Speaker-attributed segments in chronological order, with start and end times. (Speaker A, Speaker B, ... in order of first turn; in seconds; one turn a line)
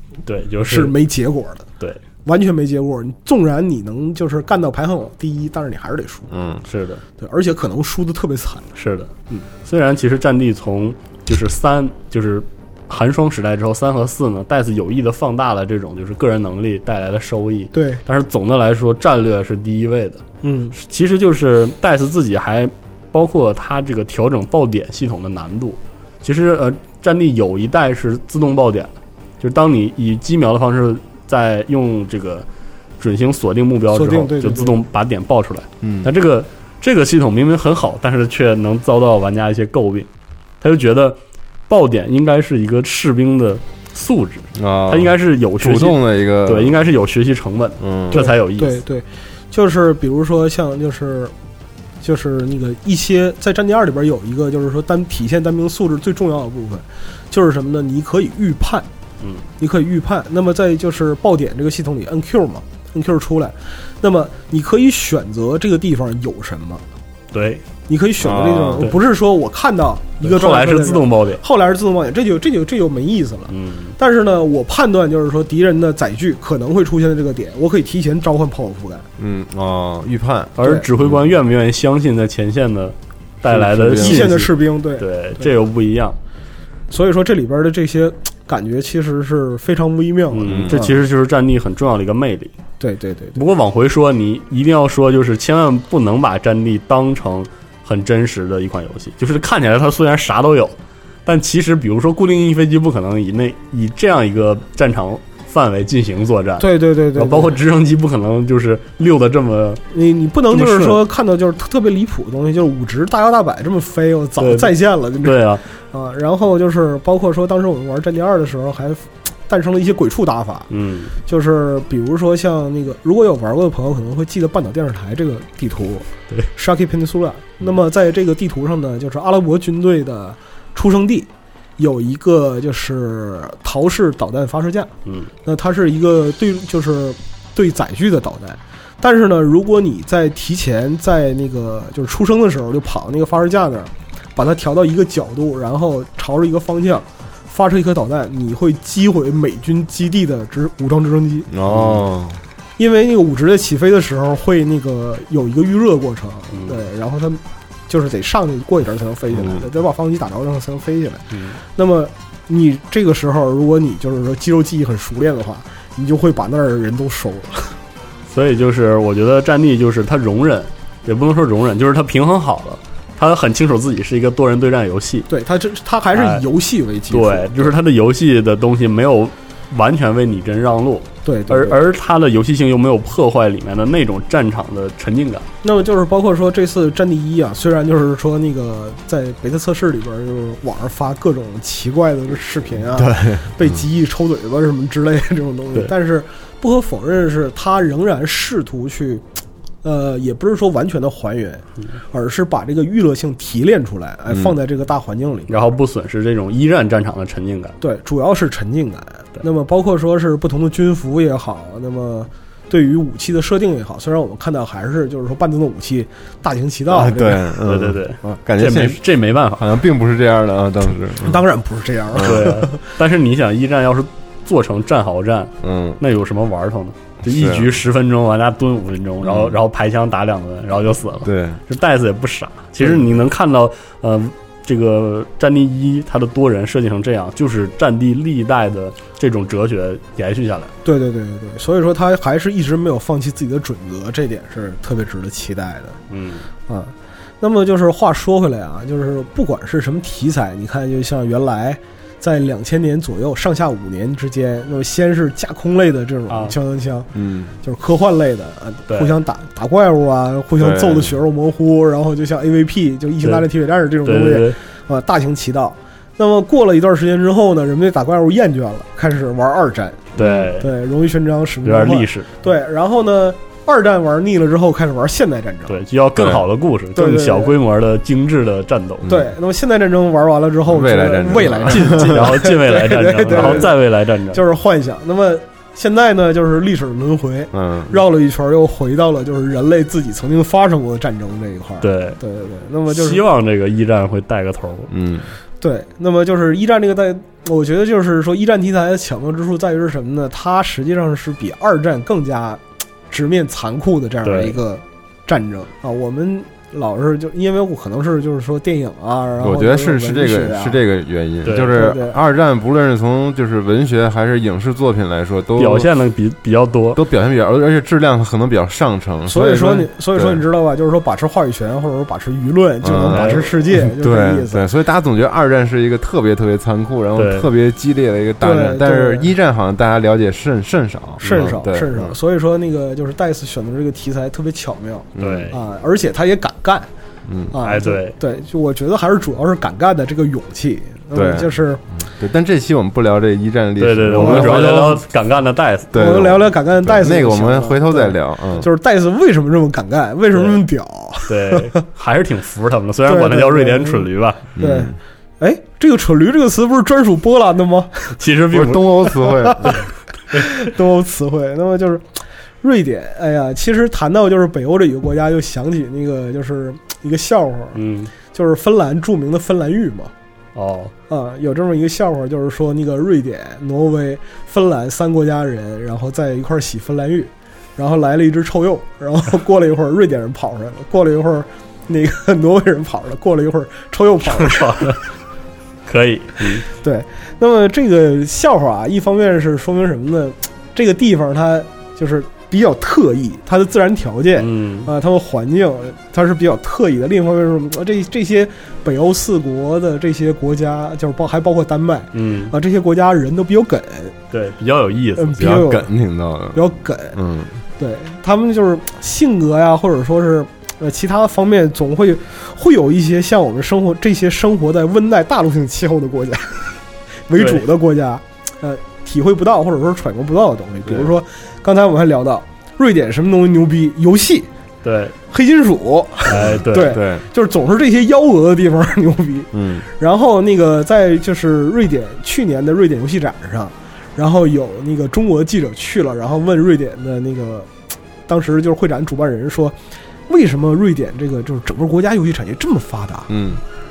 Speaker A: 0.2-0.9
Speaker B: 0.6-1.7
Speaker B: 2.2-6.3
Speaker C: 6.3-6.6
Speaker A: 6.7-7.0
Speaker B: 7.2-8.7
Speaker A: 8.8-32.5
Speaker B: 17.7-18.0
Speaker B: 20.4-20.8
Speaker A: 33.0-40.1
Speaker B: 33.9-34.8
Speaker C: 35.8-36.1
Speaker A: 40.6-41.2
Speaker A: 41.7-48.8
Speaker C: 44.5-46.8
Speaker C: 47.8-48.2
Speaker B: 48.1-51.3
Speaker B: 52.0-58.9
Speaker B: 59.6-66.8
Speaker A: 67.3-67.6
Speaker B: 67.9-79.1
Speaker C: 68.2-68.8
Speaker A: 70.2-71.4
Speaker A: 73.5-74.0
Speaker C: 79.2-81.2
Speaker A: 80.6-86.2
Speaker B: 80.6-80.8
Speaker C: 83.4-84.4
Speaker B: 84.0-85.5
Speaker B: 86.9-91.0
Speaker A: 90.3-92.5
Speaker C: 90.5-90.8
Speaker B: 92.8-93.4
Speaker A: 93.3-109.8
Speaker B: 106.6-107.5
Speaker B: 109.9-120.7
Speaker A: 110.5-111.0
Speaker A: 114.4-115.6
Speaker A: 120.7-121.1
Speaker B: 121.2-134.9
Speaker B: 135.4-151.5
Speaker C: 151.5-152.4
Speaker B: 152.8-167.7
Speaker A: 156.5-156.8
Speaker C: 159.3-159.6
Speaker A: 161.3-161.6
Speaker A: 168.3-175.3
Speaker B: 175.3-177.7
Speaker A: 176.1-176.4
Speaker A: 177.1-185.5
Speaker B: 181.2-181.8
Speaker B: 185.6-199.2
Speaker C: 192.9-193.8
Speaker B: 199.8-205.6
Speaker A: 205.5-207.8
Speaker B: 207.8-217.5
Speaker C: 216.9-221.4
Speaker A: 217.7-219.6
Speaker B: 221.2-222.8
Speaker C: 222.1-222.4
Speaker A: 222.2-240.7
Speaker C: 225.6-226.0
Speaker C: 227.2-227.7
Speaker C: 229.2-229.6
Speaker C: 231.2-231.6
Speaker B: 240.8-246.0
Speaker A: 246.1-246.4
Speaker B: 246.7-257.1
Speaker A: 256.3-256.5
Speaker C: 257.1-257.5
Speaker B: 257.6-275.8
Speaker C: 260.6-261.1
Speaker A: 264.0-264.6
Speaker C: 270.2-270.5
Speaker A: 270.2-270.7
Speaker A: 271.6-272.3
Speaker A: 275.7-279.1
Speaker C: 276.2-276.4
Speaker B: 276.9-277.6
Speaker C: 279.0-279.3
Speaker B: 279.1-283.8
Speaker C: 280.7-282.3
Speaker A: 281.7-284.4
Speaker C: 283.3-283.7
Speaker B: 284.3-293.2
Speaker C: 287.5-288.0
Speaker A: 291.8-292.2
Speaker A: 292.9-294.9
Speaker C: 294.9-295.3
Speaker B: 295.6-310.8
Speaker A: 304.2-304.6
Speaker C: 309.4-315.9
Speaker A: 311.4-311.7
Speaker B: 311.7-312.2
Speaker A: 315.6-317.0
Speaker C: 316.9-320.4
Speaker B: 319.3-324.6
Speaker C: 322.8-332.1
Speaker A: 323.1-323.4
Speaker A: 327.1-327.5
Speaker B: 328.4-329.3
Speaker A: 331.2-331.5
Speaker B: 331.2-336.9
Speaker C: 335.1-335.5
Speaker A: 335.2-335.6
Speaker C: 337.2-337.5
Speaker B: 337.5-341.8
Speaker A: 337.6-338.1
Speaker C: 341.1-345.0
Speaker A: 343.8-345.9
Speaker B: 344.1-344.7
Speaker C: 345.9-348.7
Speaker B: 345.9-351.7
Speaker A: 350.3-350.6
Speaker A: 351.3-354.4
Speaker B: 353.1-358.2
Speaker C: 354.6-355.0
Speaker A: 358.2-359.1
Speaker C: 358.5-359.8
Speaker B: 359.2-359.8
Speaker B: 360.3-362.1
Speaker B: 362.6-370.1
Speaker A: 367.7-368.1
Speaker A: 370.5-370.9
Speaker B: 371.1-384.9
Speaker A: 384.3-385.0
Speaker A: 385.9-386.6
Speaker B: 386.6-404.2
Speaker A: 394.4-394.9
Speaker A: 402.1-402.5
Speaker A: 404.3-405.6
Speaker B: 405.2-405.9
Speaker C: 405.4-407.6
Speaker B: 406.5-407.2
Speaker B: 407.8-416.7
Speaker B: 417.3-424.5
Speaker A: 417.4-417.6
Speaker A: 424.8-425.1
Speaker B: 425.3-437.7
Speaker A: 426.3-427.0
Speaker C: 426.3-427.2
Speaker C: 429.5-429.9
Speaker B: 438.3-439.8
Speaker B: 440.3-443.3
Speaker C: 443.3-443.6